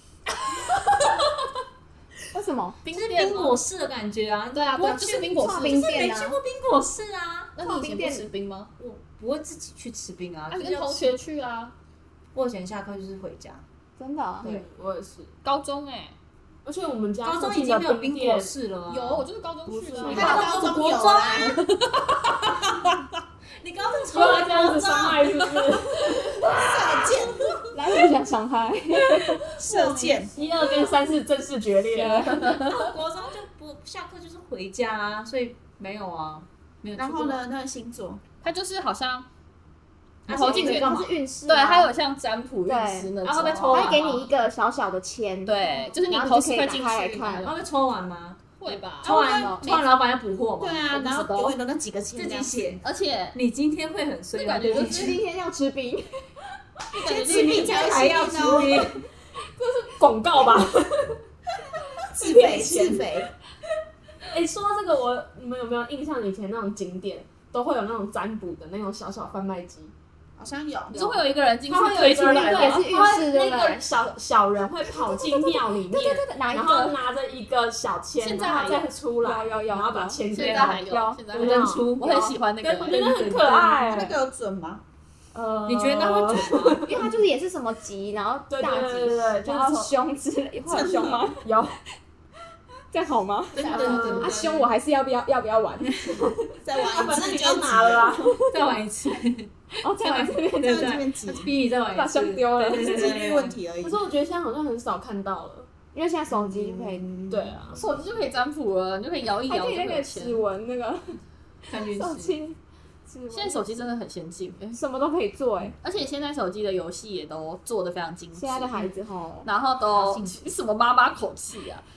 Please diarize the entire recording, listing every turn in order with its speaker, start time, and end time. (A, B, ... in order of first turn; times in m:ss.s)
0:00.3-0:01.5 A
0:02.3-0:02.8 B
0:02.8-0:03.6 A
0:02.9-0:07.5 C
0:04.5-0:05.9 A
0:05.4-0:06.4 B
0:07.6-0:08.7 A
0:07.6-0:08.2 B
0:08.8-0:11.1 C
0:10.5-0:11.7 A
0:12.3-0:13.6 C
0:14.0-0:14.5 B
0:14.4-0:15.3 D
0:15.4-0:16.1 A
0:16.6-0:18.5 D
0:17.2-0:21.6 C
0:18.9-0:20.6 A
0:19.9-0:20.6 D
0:20.1-0:21.6 E
0:21.6-0:23.0 A
0:23.6-0:25.5 C
0:24.1-0:26.4 D
0:26.4-0:27.5 E
0:26.5-0:27.6 C
0:27.7-0:29.4 B
0:29.6-0:30.3 E
0:29.8-0:30.2 C
0:30.3-0:32.3 D
0:31.9-0:32.6 B
0:32.0-0:32.9 A
0:32.3-0:37.4 C
0:37.0-0:38.2 E
0:38.4-0:39.3 A
0:40.2-0:41.1 C
0:40.3-0:44.1 A
0:40.3-0:41.9 B
0:42.7-0:43.1 B
0:43.2-0:44.3 C
0:43.7-0:47.5 B
0:45.4-0:47.6 A
0:47.4-0:48.4 C
0:48.6-0:49.9 A
0:48.7-0:49.8 B
0:49.0-0:51.5 C
0:49.2-0:49.6 E
0:50.6-0:52.6 E
0:51.0-0:51.4 A
0:52.1-0:55.2 C
0:52.8-0:53.4 A
0:54.4-0:55.2 A
0:54.7-0:56.2 B
0:56.9-0:57.9 A
0:57.0-0:58.9 E
0:57.2-0:59.0 C
0:59.6-1:01.2 D
1:02.0-1:03.1 D
1:02.1-1:03.3 E
1:04.3-1:09.9 D
1:10.4-1:11.2 E
1:10.9-1:13.1 A
1:11.7-1:22.0 D
1:12.2-1:13.8 B
1:15.0-1:17.0 B
1:18.2-1:18.9 A
1:19.2-1:21.2 B
1:20.3-1:23.0 A
1:20.4-1:20.8 C
1:21.3-1:23.8 C
1:22.7-1:24.2 D
1:23.8-1:24.8 E
1:25.3-1:27.1 D
1:25.6-1:27.0 C
1:26.8-1:31.4 B
1:28.5-1:29.9 D
1:30.6-1:31.3 E
1:31.4-1:31.8 D
1:32.9-1:36.3 B
1:33.5-1:34.7 C
1:33.7-1:34.4 D
1:33.7-1:34.1 A
1:36.2-1:38.5 D
1:36.6-1:38.2 E
1:38.5-1:43.6 C
1:39.8-1:41.0 B
1:40.6-1:41.5 E
1:41.9-1:43.1 B
1:42.7-1:44.0 E
1:43.8-1:45.7 D
1:45.9-1:47.1 B
1:46.3-1:47.8 E
1:47.3-1:47.8 D
1:47.7-1:50.4 A
1:49.5-1:51.2 B
1:51.7-1:52.4 C
1:51.7-1:53.6 B
1:53.3-1:54.8 A
1:54.7-1:55.7 B
1:55.8-1:58.9 A
1:58.4-1:59.5 B
1:59.4-2:01.8 A
1:59.9-2:00.5 C